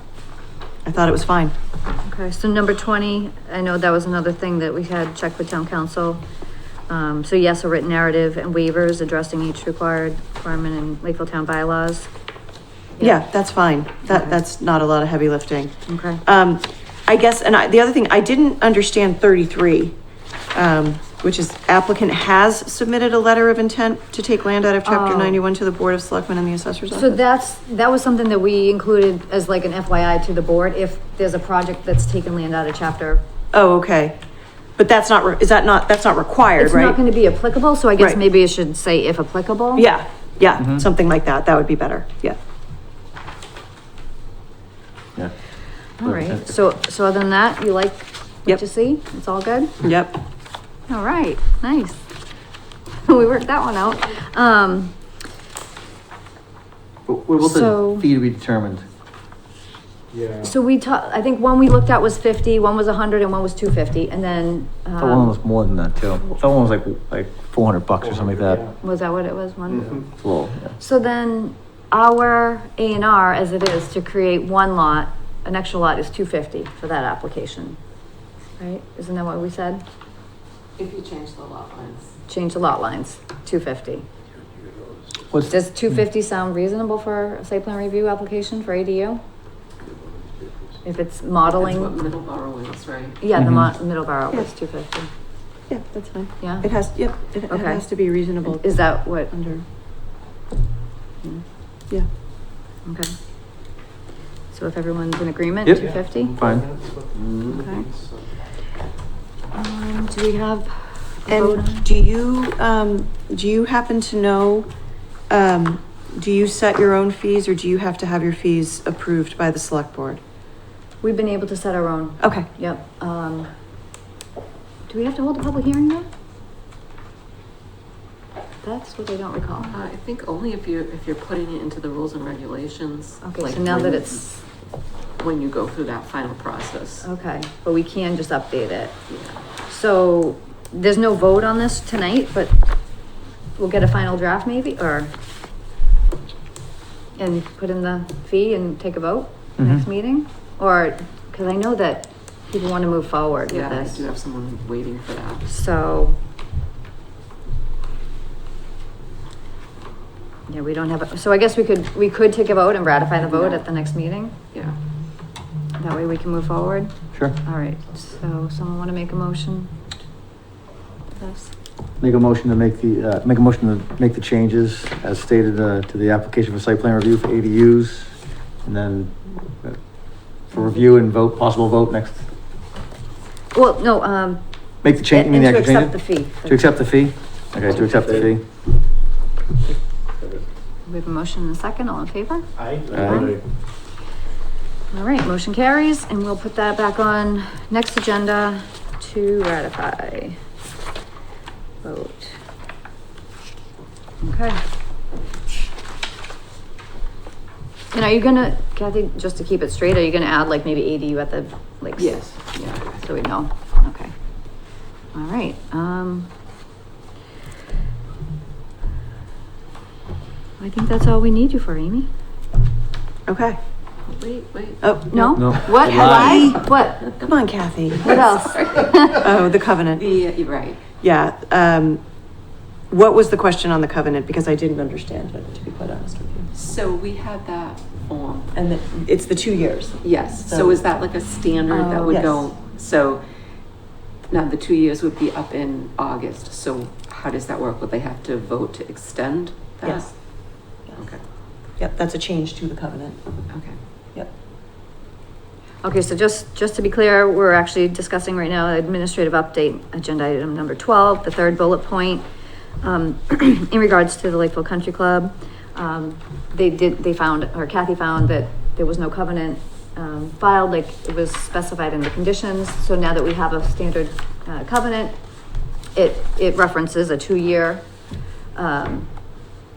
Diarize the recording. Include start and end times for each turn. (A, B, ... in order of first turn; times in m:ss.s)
0:00.8-0:01.5 A
0:02.0-0:06.2 B
0:06.9-0:12.1 B
0:13.0-0:13.2 B
0:13.0-0:19.9 A
0:14.1-0:14.4 B
0:15.9-0:16.2 B
0:20.5-0:27.2 A
0:24.8-0:25.4 B
0:26.9-0:33.2 B
0:33.5-0:34.2 A
0:34.8-0:37.0 A
0:36.6-0:39.9 B
0:39.7-0:42.4 A
0:40.6-0:40.9 C
0:46.0-0:49.7 B
0:46.0-0:46.5 C
0:49.8-0:50.2 A
0:50.9-0:52.0 B
0:53.0-0:55.0 B
0:57.1-0:58.8 C
0:57.4-0:58.0 B
1:00.1-1:00.5 D
1:00.4-1:05.3 B
1:05.0-1:08.7 C
1:08.8-1:10.1 B
1:10.2-1:10.7 C
1:10.8-1:17.8 B
1:18.6-1:19.8 B
1:20.8-1:22.1 E
1:22.3-1:24.0 B
1:25.5-1:29.2 B
1:30.8-1:31.9 B
1:31.4-1:33.2 E
1:33.2-1:35.1 B
1:33.4-1:33.7 C
1:35.7-1:38.6 A
1:36.4-1:36.8 B
1:37.5-1:39.3 B
1:39.3-1:39.6 A
1:42.8-1:43.1 B
1:44.5-1:46.4 B
1:45.6-1:46.7 C
1:46.3-1:48.1 D
1:47.5-1:47.9 B
1:49.5-1:51.9 B
1:51.3-1:54.7 A
1:55.3-2:00.2 A
2:01.0-2:03.5 B
2:02.2-2:02.5 A
2:04.9-2:06.1 B
2:08.6-2:09.8 B
2:09.7-2:14.4 E
2:13.2-2:14.4 B
2:15.2-2:17.1 E
2:17.0-2:19.0 B
2:19.1-2:19.4 E
2:19.7-2:22.6 B
2:23.6-2:25.1 B
2:27.2-2:34.0 B
2:29.6-2:29.8 C
2:33.5-2:35.5 E
2:35.4-2:36.2 B
2:40.5-2:44.3 B
2:43.2-2:43.6 E
2:45.8-2:49.7 B
2:51.1-2:51.5 B
2:52.0-2:59.8 C
3:00.4-3:02.2 C
3:03.5-3:06.7 B
3:04.8-3:08.4 C
3:10.8-3:13.4 B
3:12.6-3:13.4 D
3:12.9-3:13.3 C
3:14.9-3:20.4 B
3:21.8-3:22.3 B
3:24.2-3:24.6 B
3:27.9-3:32.3 B
3:32.0-3:33.0 E
3:32.9-3:34.1 B
3:35.1-3:36.3 B
3:40.6-3:42.1 B
3:43.3-3:43.6 A
3:44.1-3:44.8 E
3:44.8-3:46.6 A
3:45.1-3:47.1 B
3:45.3-3:46.6 C
3:47.2-3:48.2 A
3:48.0-3:49.3 B
3:48.0-3:50.8 E
3:49.0-3:50.0 A
3:51.0-3:52.0 A
3:52.9-3:56.5 A
3:56.5-3:58.5 E
3:58.5-4:00.8 A
4:00.0-4:03.2 E
4:01.7-4:02.2 B
4:02.0-4:02.4 A
4:04.3-4:10.1 E
4:11.8-4:13.2 A
4:13.5-4:13.8 E
4:15.8-4:22.2 B
4:22.8-4:35.2 B
4:35.9-4:37.9 B
4:38.5-4:39.1 B